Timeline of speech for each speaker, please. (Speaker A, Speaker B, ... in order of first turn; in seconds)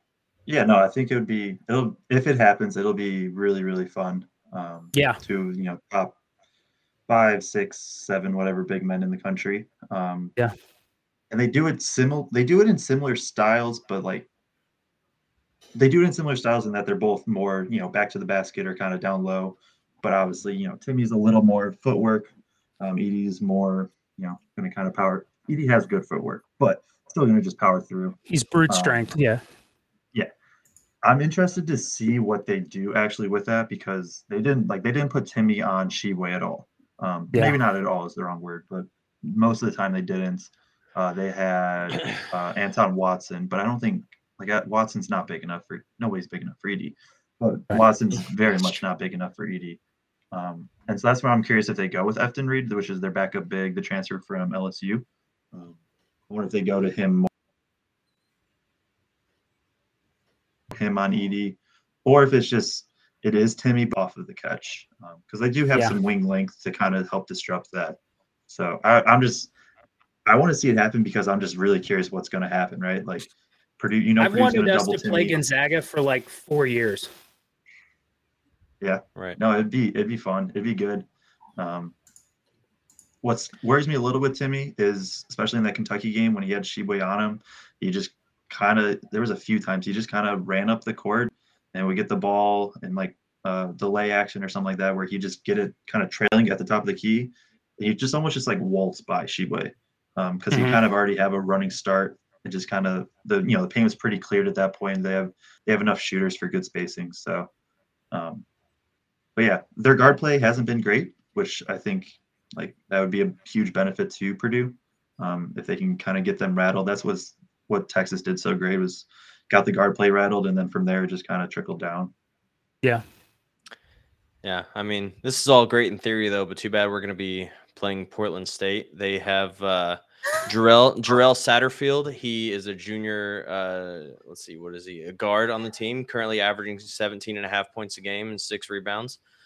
Speaker A: 0.5-6.2, 7.1-10.3, 11.3-14.3, 15.8-28.2, 28.7-29.1, 31.0-49.8, 50.3-57.3, 60.7-68.0, 68.5-69.5, 70.2-75.4, 78.8-81.0, 81.6-81.9, 83.2-107.5, 108.1-108.4, 109.3-122.1
Speaker B: 4.9-5.2, 28.3-29.4, 74.2-77.1, 100.5-100.8
Speaker C: 124.4-139.2